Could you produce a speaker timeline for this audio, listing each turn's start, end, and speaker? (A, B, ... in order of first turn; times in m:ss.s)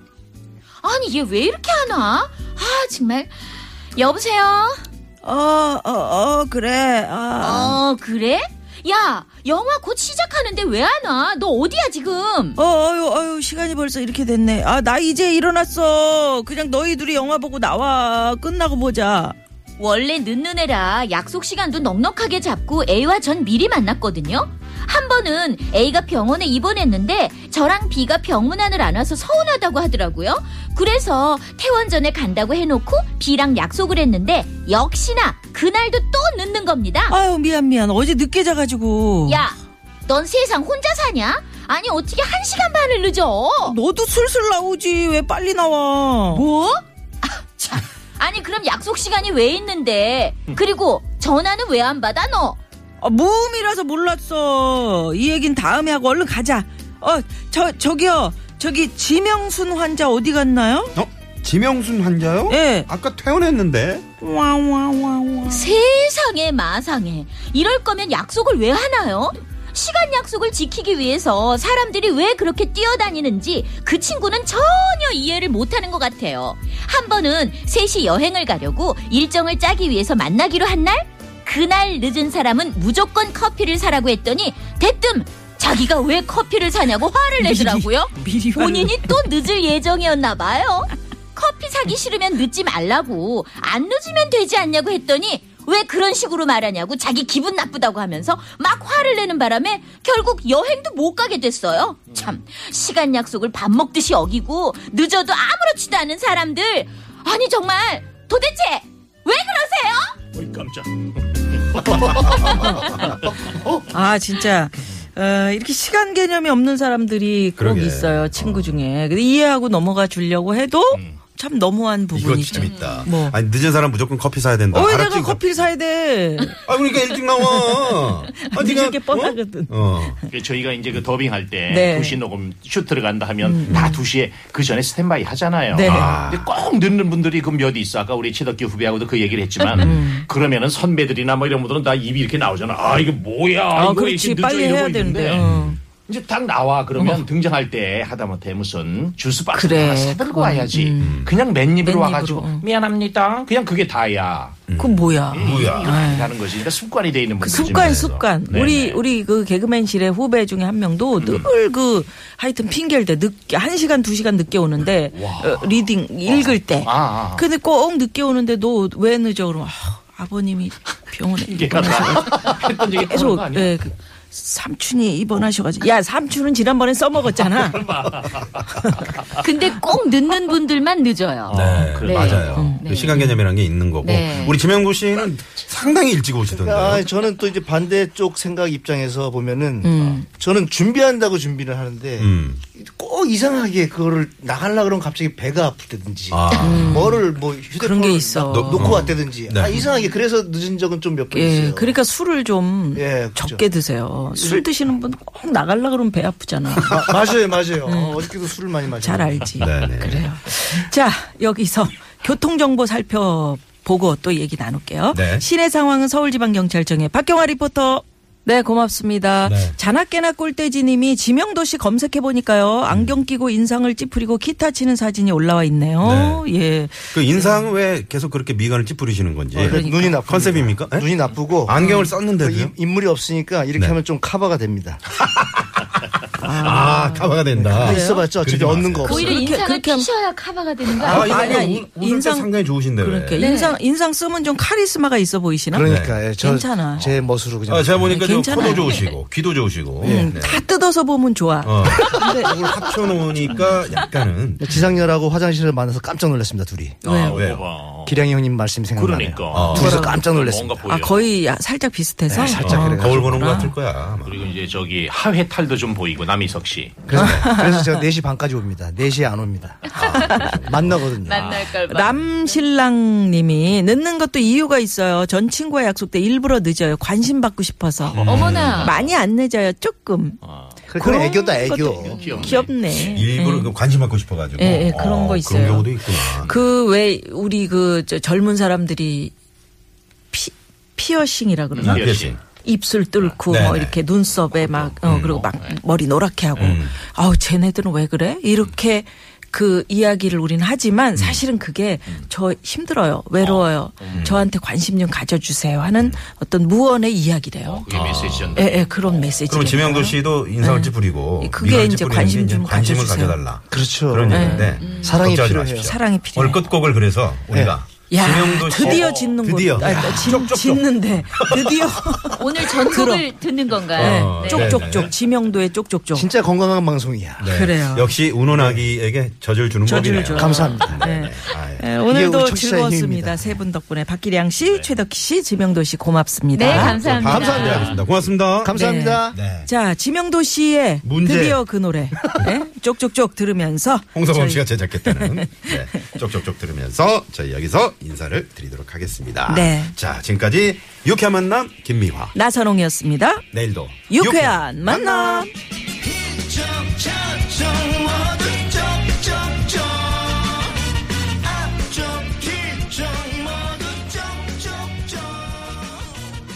0:00.8-0:03.4 A
0:04.0-0:04.8 A
0:05.2-0:07.8 B
0:07.4-0:12.6 A
0:12.6-0:19.4 B
0:19.8-0:37.1 A
0:37.1-0:39.4 B
0:39.3-0:43.8 A
0:43.6-0:46.4 B
0:46.3-0:52.6 A
0:53.0-1:01.0 B
1:01.0-1:04.0 C
1:02.5-1:02.9 B
1:04.2-1:05.7 B
1:05.5-1:50.2 A
1:27.4-1:29.3 B
1:50.3-1:53.8 D
1:52.3-1:53.0 B
1:53.9-2:03.4 B
1:57.6-1:58.8 C
2:00.9-2:01.2 D
2:02.1-2:05.7 C
2:02.6-2:03.0 A
2:04.7-2:06.7 B
2:06.5-2:10.2 C
2:07.4-2:09.8 B
2:10.3-2:25.4 D
2:11.7-2:12.2 B
2:13.4-2:14.0 B
2:15.7-2:16.2 B
2:15.8-2:16.5 C
2:19.6-2:20.3 B
2:23.8-2:25.8 B
2:25.4-2:25.8 C
2:26.1-2:34.6 D
2:27.0-2:27.2 B
2:29.5-2:32.6 B
2:31.0-2:31.4 C
2:34.7-2:36.0 C
2:34.8-2:36.3 B
2:35.3-2:39.0 D
2:37.4-2:57.9 B
2:37.5-2:38.2 C
2:41.2-2:41.5 D
2:45.1-2:45.7 D
2:46.3-2:47.4 D
2:51.4-2:53.9 D
2:57.4-2:59.4 D
2:59.4-3:01.5 A
3:01.5-3:02.7 D
3:01.5-3:07.1 C
3:01.7-3:03.4 B
3:02.0-3:03.2 A
3:04.2-3:04.5 A
3:06.5-3:22.0 E
3:09.8-3:10.3 B
3:12.2-3:12.6 C
3:16.3-3:17.0 C
3:16.6-3:19.1 B
3:18.5-3:19.8 C
3:19.7-3:20.0 B
3:21.3-3:27.2 B
3:23.0-3:23.7 E
3:24.3-3:24.6 E
3:26.9-3:29.4 E
3:27.8-3:28.3 B
3:28.9-3:47.6 B
3:29.6-3:30.3 C
3:35.1-3:35.4 C
3:39.4-3:39.8 C
3:42.9-3:43.2 C
3:46.0-3:46.5 C
3:47.1-3:52.7 C
3:49.5-3:55.0 E
3:49.6-3:50.2 B
3:56.4-3:58.3 B
3:56.5-3:59.2 C
3:57.5-3:59.5 E
3:59.0-4:00.1 B
3:59.1-4:01.6 A
4:01.0-4:03.4 C
4:01.0-4:07.1 B
4:03.4-4:03.8 A
4:05.7-4:08.2 E
4:05.8-4:06.2 C
4:07.0-4:10.6 C
4:08.1-4:09.1 B
4:08.6-4:08.9 A
4:10.0-4:11.8 B
4:10.0-4:10.3 E
4:11.6-4:15.0 C
4:12.1-4:12.5 E
4:14.6-4:17.0 E
4:17.0-4:17.4 B
4:17.0-4:18.3 D
4:17.3-4:17.6 C
4:18.1-4:20.8 E
4:18.9-4:21.3 D
4:19.5-4:20.1 C
4:19.7-4:20.2 B
4:20.9-4:23.8 B
4:22.3-4:23.5 E
4:22.4-4:24.4 C
4:24.2-4:27.0 D
4:27.1-4:31.4 E
4:27.1-4:27.5 C
4:27.2-4:28.0 B
4:29.9-4:31.0 C
4:30.1-4:30.6 B
4:31.2-4:31.8 D
4:31.3-4:32.6 A
4:31.8-4:40.4 B
4:38.1-4:39.1 D
4:38.1-4:38.9 C
4:38.3-4:38.9 A
4:40.4-4:40.8 D
4:40.9-4:42.2 E
4:41.0-4:43.7 B
4:41.8-4:43.2 D
4:42.1-4:42.5 A
4:42.9-4:46.5 C
4:44.6-4:49.3 B
4:50.3-5:07.9 B
4:51.7-4:52.4 D
4:51.8-4:52.4 C
4:53.5-4:54.0 C
4:54.5-4:55.4 C
4:55.2-4:55.8 D
4:56.6-4:57.0 C
5:01.2-5:01.4 C
5:03.4-5:04.4 D
5:04.2-5:04.4 C
5:07.6-5:09.3 D
5:07.9-5:08.6 C
5:08.6-5:13.4 B
5:09.5-5:22.3 C
5:13.7-5:15.9 E
5:14.3-5:14.8 B
5:14.8-5:15.2 A
5:15.8-5:16.7 B
5:18.1-5:23.3 B
5:19.0-5:19.4 D
5:19.8-5:20.4 E
5:22.4-5:24.7 A
5:23.9-5:25.1 C
5:24.0-5:26.3 B
5:24.8-5:25.1 D
5:26.2-5:27.5 E
5:27.4-5:31.9 C
5:27.4-5:28.1 B
5:28.5-5:28.9 E
5:29.8-5:37.0 B
5:30.3-5:31.0 E
5:32.1-5:33.4 E
5:34.6-5:34.9 D
5:36.5-5:38.0 A
5:36.7-5:38.8 C
5:37.2-5:37.9 E
5:37.6-5:38.0 D
5:38.6-5:39.4 E
5:38.7-5:45.7 B
5:39.3-5:39.7 C
5:41.0-5:41.6 C
5:44.2-5:52.3 C
5:49.5-5:49.9 B
5:52.3-5:53.4 B
5:53.5-5:55.5 C
5:54.1-5:55.5 B
5:56.0-6:00.8 E
6:01.4-6:05.9 E